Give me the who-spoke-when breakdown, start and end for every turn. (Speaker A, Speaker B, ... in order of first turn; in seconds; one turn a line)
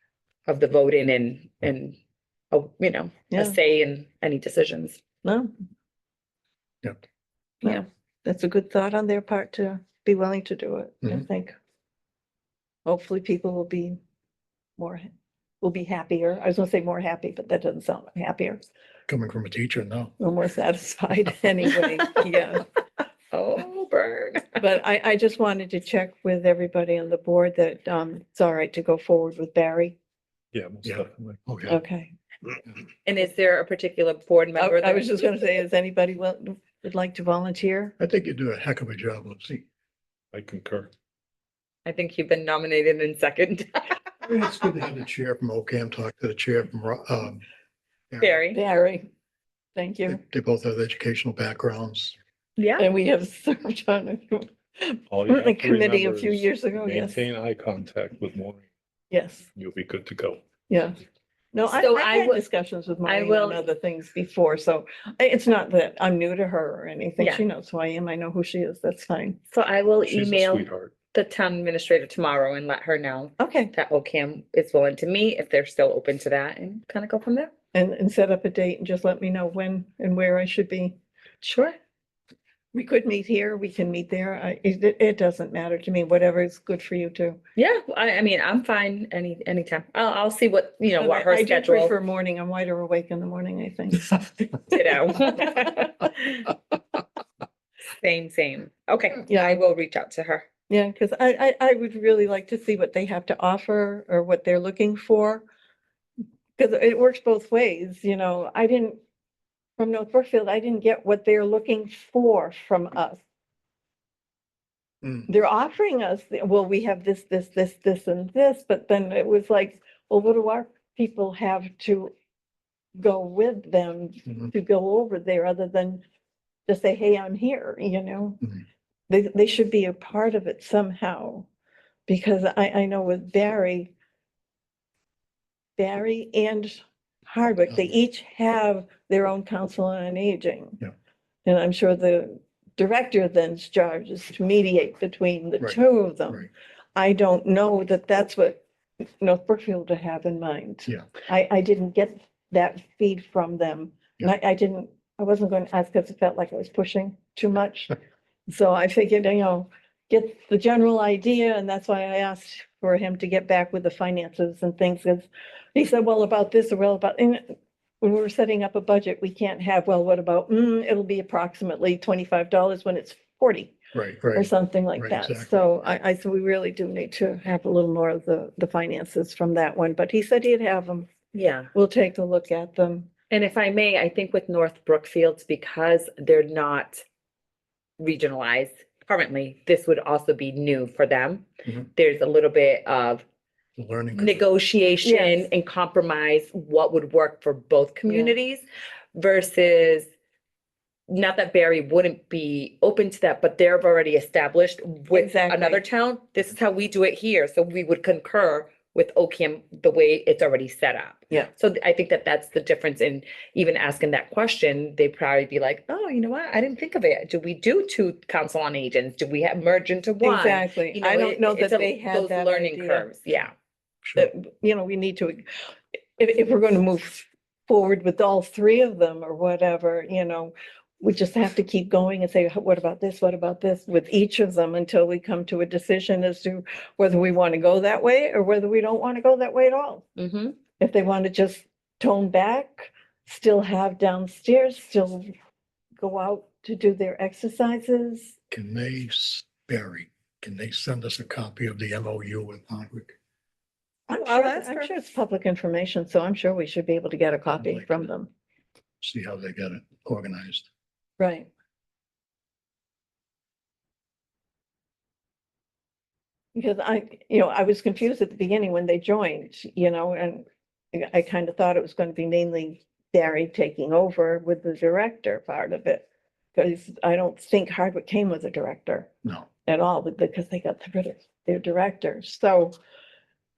Speaker A: 0.5-2.0
Speaker A: 2.5-5.0
Speaker B: 5.2-5.5
Speaker B: 7.6-11.5
Speaker B: 12.8-14.0
Speaker B: 14.8-15.1
Speaker B: 15.6-18.6
Speaker C: 19.1-20.1
Speaker B: 20.2-22.6
Speaker A: 23.3-24.6
Speaker B: 24.6-30.0
Speaker D: 30.5-31.4
Speaker C: 30.8-31.8
Speaker B: 31.7-32.1
Speaker A: 33.0-35.3
Speaker B: 34.5-37.9
Speaker C: 38.0-39.6
Speaker D: 40.3-40.9
Speaker A: 41.8-43.9
Speaker C: 44.2-47.4
Speaker C: 48.1-48.4
Speaker A: 48.2-48.6
Speaker B: 48.5-49.1
Speaker B: 49.7-50.2
Speaker C: 50.1-52.1
Speaker A: 52.6-52.9
Speaker B: 52.8-57.2
Speaker D: 55.1-58.6
Speaker B: 59.1-59.5
Speaker D: 59.5-60.4
Speaker B: 60.7-61.0
Speaker B: 61.5-69.4
Speaker A: 61.7-62.4
Speaker A: 63.0-63.6
Speaker A: 67.2-67.4
Speaker A: 69.5-77.5
Speaker D: 70.0-70.9
Speaker B: 73.4-73.7
Speaker B: 77.7-81.0
Speaker A: 81.4-81.8
Speaker B: 82.7-87.4
Speaker A: 87.6-91.9
Speaker B: 91.0-95.9
Speaker A: 94.7-96.5
Speaker A: 98.0-100.5
Speaker B: 99.3-99.6
Speaker B: 100.7-105.4
Speaker B: 106.6-109.0
Speaker B: 109.8-113.2
Speaker C: 115.0-115.3
Speaker B: 115.3-122.1
Speaker B: 123.0-126.0
Speaker B: 126.7-128.4
Speaker B: 129.1-131.5
Speaker B: 132.1-133.9
Speaker B: 135.8-140.8
Speaker B: 141.4-148.6
Speaker B: 149.2-157.9
Speaker B: 158.5-173.7
Speaker C: 173.9-175.5
Speaker B: 174.3-181.1
Speaker A: 181.3-181.7
Speaker B: 181.7-183.1
Speaker A: 183.3-187.0
Speaker A: 188.0-193.2
Speaker C: 193.8-194.4
Speaker A: 194.2-198.6
Speaker B: 195.0-195.4
Speaker B: 198.1-198.3
Speaker A: 199.1-200.1
Speaker A: 201.1-223.5
Speaker B: 205.1-205.8
Speaker B: 220.2-223.1
Speaker B: 224.1-240.0
Speaker A: 240.2-240.6
Speaker B: 240.8-245.3
Speaker B: 246.0-248.3
Speaker C: 248.5-253.2
Speaker A: 254.1-255.0
Speaker B: 254.1-258.3
Speaker C: 257.6-258.1
Speaker C: 259.0-260.7
Speaker B: 261.2-261.5
Speaker B: 266.5-279.1
Speaker B: 279.6-282.7